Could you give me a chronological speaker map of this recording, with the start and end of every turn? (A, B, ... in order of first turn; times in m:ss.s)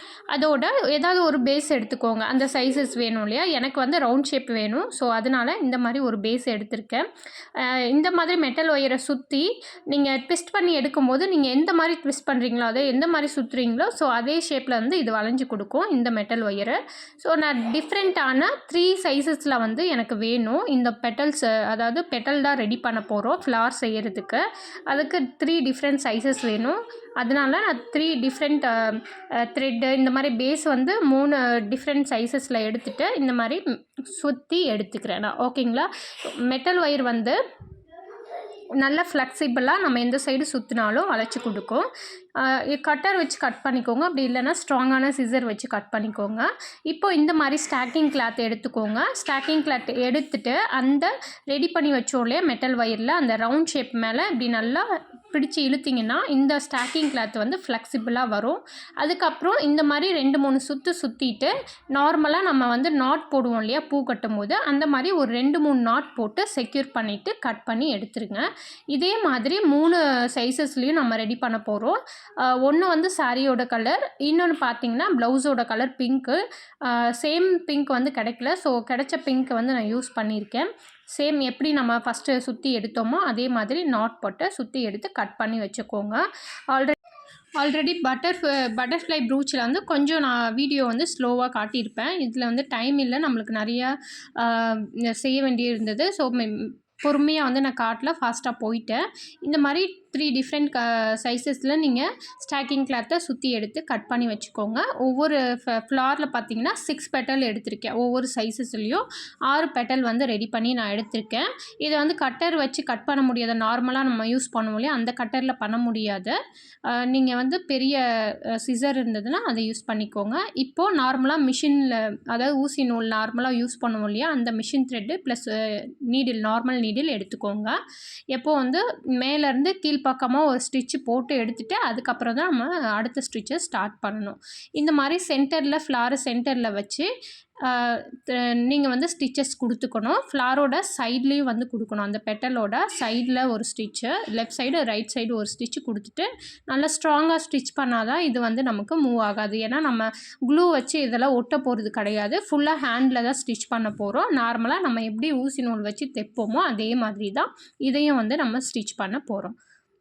0:00.3-0:07.0 A
0:07.6-0:37.4 A
0:38.8-0:41.9 A
0:42.4-1:27.0 A
1:27.6-1:56.4 A
1:56.9-2:07.8 A
2:08.3-2:17.1 A
2:17.6-2:39.6 A